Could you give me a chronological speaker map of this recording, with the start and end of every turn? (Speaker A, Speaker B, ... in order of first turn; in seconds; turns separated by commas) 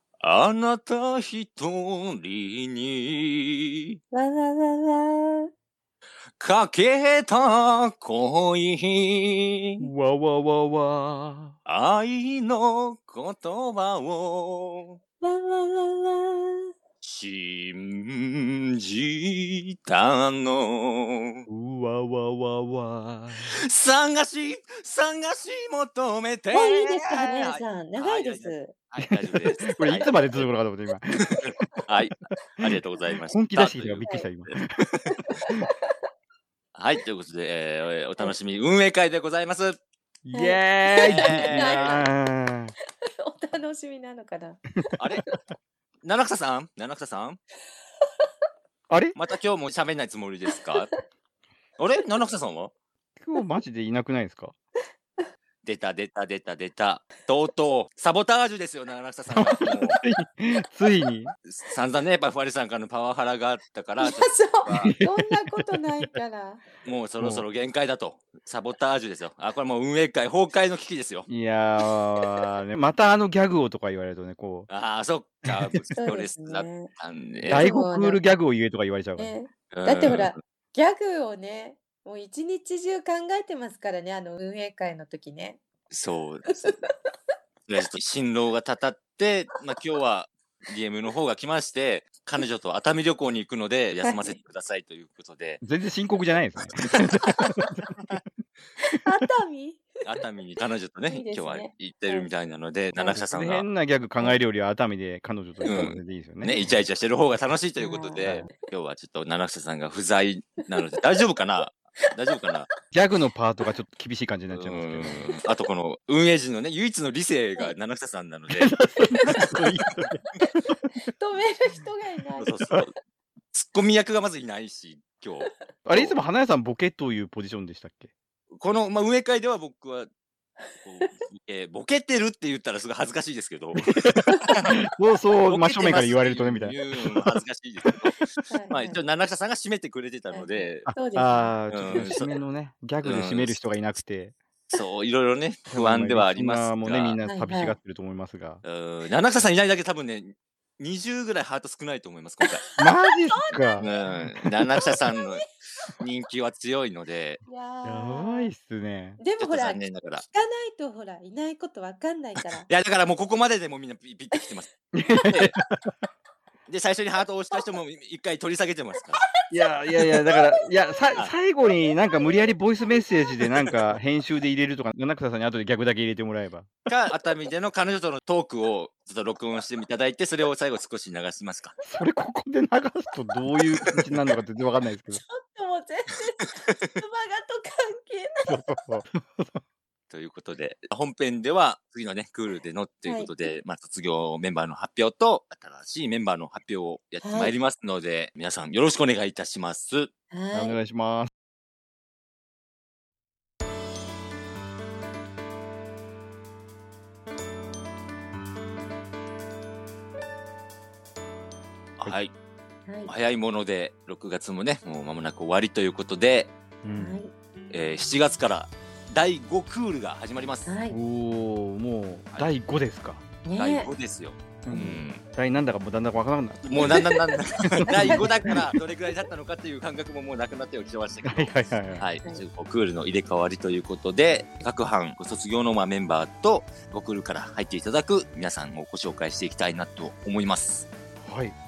Speaker A: 0.2-3.9, Speaker B: 4.1-5.5, Speaker A: 6.4-9.9, Speaker C: 9.8-11.5, Speaker A: 11.7-15.0, Speaker B: 15.2-16.7, Speaker A: 17.0-21.5, Speaker C: 21.5-23.5, Speaker A: 23.4-30.5, Speaker B: 26.5-28.7, Speaker C: 29.0-31.3, Speaker A: 31.3-34.6, Speaker C: 33.3-35.6, Speaker B: 35.2-35.5, Speaker A: 36.7-39.8, Speaker C: 40.2-42.7, Speaker B: 40.3-42.0, Speaker A: 41.0-41.9, Speaker B: 43.0-44.8, Speaker A: 45.0-45.2, Speaker A: 46.0-47.4, Speaker C: 48.9-49.1, Speaker A: 49.1-50.9, Speaker A: 51.8-52.7, Speaker C: 53.2-54.5, Speaker A: 55.6-60.0, Speaker C: 59.3-61.3, Speaker A: 61.4-64.9, Speaker B: 64.0-66.6, Speaker C: 64.7-65.3, Speaker A: 66.8-71.3, Speaker C: 71.3-74.7, Speaker A: 74.7-77.6, Speaker B: 76.0-76.9, Speaker C: 77.5-79.3, Speaker B: 77.5-78.2, Speaker B: 79.2-85.6, Speaker A: 79.7-80.3, Speaker A: 85.9-86.7, Speaker A: 87.7-95.6, Speaker B: 94.0-94.3, Speaker C: 95.6-98.2, Speaker B: 98.8-99.9, Speaker A: 100.0-103.7, Speaker B: 101.1-102.3, Speaker B: 103.0-103.2, Speaker C: 103.2-106.6, Speaker A: 105.7-112.7, Speaker B: 107.8-108.5, Speaker C: 112.9-115.2, Speaker A: 114.5-118.7, Speaker C: 118.5-120.2, Speaker B: 121.1-122.5, Speaker A: 122.4-122.9, Speaker A: 123.5-126.1, Speaker C: 125.8-128.1, Speaker A: 128.5-130.1, Speaker A: 130.8-134.7, Speaker C: 133.8-137.3, Speaker A: 135.4-140.9, Speaker B: 138.5-139.0, Speaker B: 140.3-142.2, Speaker C: 140.8-144.3, Speaker A: 141.7-142.3, Speaker A: 143.0-143.6, Speaker A: 144.7-147.2, Speaker C: 145.7-148.6, Speaker B: 147.2-147.8, Speaker A: 148.6-152.6, Speaker B: 152.4-153.9, Speaker C: 152.8-153.9, Speaker A: 153.8-155.5, Speaker B: 154.7-155.4, Speaker A: 156.0-157.4, Speaker B: 157.4-158.5, Speaker C: 157.8-159.2, Speaker B: 159.2-162.7, Speaker A: 159.4-160.2, Speaker A: 162.7-164.7, Speaker C: 164.9-165.9, Speaker A: 166.7-169.2, Speaker C: 169.5-176.7, Speaker B: 170.0-171.1, Speaker B: 172.9-173.4, Speaker A: 176.9-181.8, Speaker C: 181.9-185.2, Speaker B: 185.1-188.8, Speaker C: 188.5-189.6, Speaker A: 190.1-200.1, Speaker B: 193.1-193.3, Speaker B: 197.2-197.5, Speaker B: 200.3-200.8, Speaker C: 200.5-201.3, Speaker A: 212.0-212.3, Speaker A: 213.1-216.5, Speaker C: 216.8-217.2, Speaker B: 216.9-217.3, Speaker A: 217.7-220.7, Speaker B: 220.7-221.0, Speaker C: 220.9-223.2, Speaker B: 223.4-223.9, Speaker A: 223.6-225.2, Speaker C: 224.6-227.1, Speaker A: 226.7-240.9, Speaker B: 226.8-227.1, Speaker C: 227.8-228.6, Speaker B: 227.9-228.6, Speaker C: 231.2-232.1, Speaker C: 241.2-241.6